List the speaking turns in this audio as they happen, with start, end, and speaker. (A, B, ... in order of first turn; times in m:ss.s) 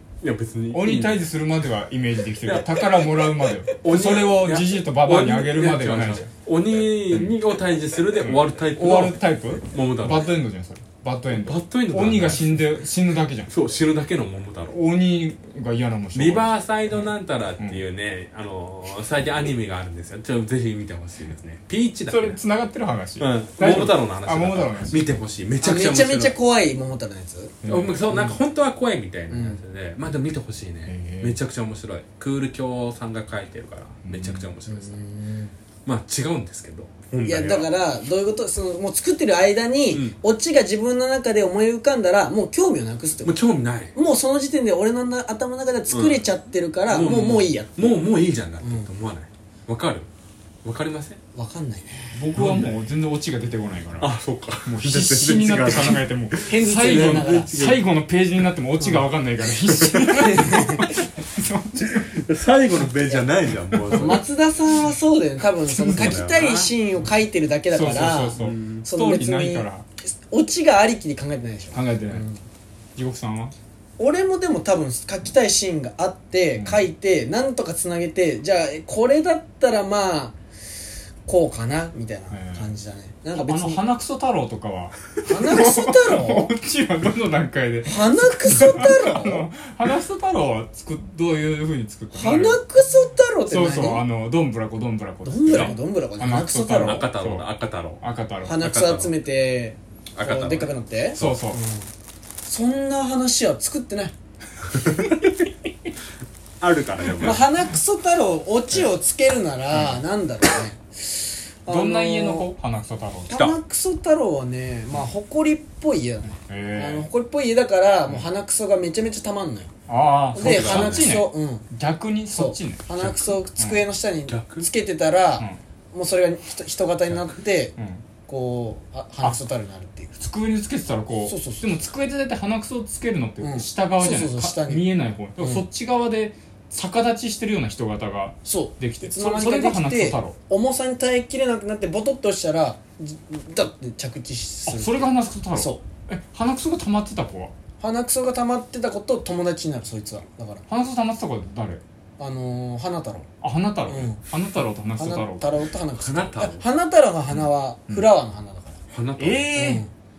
0:00.2-0:01.3 A
0:00.7-0:06.3 B
0:02.4-0:10.4 A
0:07.1-0:07.4 B
0:08.2-0:13.5 B
0:11.4-0:12.7 A
0:13.5-0:14.8 A
0:14.7-0:17.8 B
0:16.1-0:22.4 A
0:22.1-0:25.2 B
0:23.2-0:26.4 A
0:25.6-0:27.6 C
0:27.6-0:28.0 B
0:27.7-0:35.0 A
0:29.3-0:29.6 C
0:30.8-0:31.4 B
0:34.0-0:34.5 B
0:34.7-0:35.5 C
0:35.9-0:37.7 A
0:37.2-0:43.4 C
0:39.9-0:40.2 A
0:43.2-0:43.9 A
0:43.9-0:48.0 C
0:45.9-0:46.2 A
0:46.9-0:50.1 A
0:48.6-0:48.9 C
0:50.6-0:51.2 A
0:51.3-0:52.3 C
0:52.1-0:54.1 B
0:52.4-0:52.8 A
0:54.0-0:57.8 A
0:54.6-1:02.1 B
0:56.4-0:57.7 C
0:59.6-1:00.5 A
1:00.1-1:00.9 C
1:01.8-1:04.3 A
1:03.9-1:12.4 C
1:05.6-1:06.7 A
1:05.7-1:06.2 B
1:07.7-1:09.8 B
1:08.4-1:08.9 A
1:11.7-1:12.2 B
1:13.0-1:13.5 B
1:14.0-1:20.4 C
1:16.6-1:16.9 B
1:21.2-1:23.8 C
1:22.3-1:22.7 B
1:23.4-1:32.6 B
1:25.3-1:26.5 C
1:27.8-1:29.5 C
1:32.1-1:34.1 C
1:33.5-1:38.6 B
1:35.2-1:37.0 C
1:35.5-1:35.8 A
1:36.7-1:38.0 A
1:38.4-1:41.9 C
1:38.6-1:39.1 A
1:40.1-1:40.7 A
1:41.2-1:41.6 B
1:42.4-1:44.1 C
1:44.8-1:45.3 A
1:46.6-1:47.4 A
1:47.2-1:52.5 C
1:49.7-1:50.0 B
1:51.7-1:53.4 B
1:53.3-1:59.7 C
1:53.3-1:53.6 A
1:56.4-1:57.1 B
1:59.9-2:03.8 B
2:00.3-2:01.7 C
2:00.4-2:01.1 A
2:02.3-2:07.8 C
2:04.3-2:04.7 A
2:07.8-2:08.0 B
2:08.3-2:10.1 C
2:10.2-2:20.4 B
2:11.2-2:11.8 C
2:13.4-2:15.6 C
2:18.4-2:25.8 C
2:24.7-2:27.5 B
2:27.8-2:30.6 C
2:30.7-2:31.8 B
2:32.2-2:33.3 C
2:33.4-2:35.5 B
2:33.9-2:34.2 C
2:35.0-2:38.8 C
2:35.9-2:36.6 A
2:38.9-2:39.6 A
2:39.2-2:39.8 B
2:39.5-2:39.9 C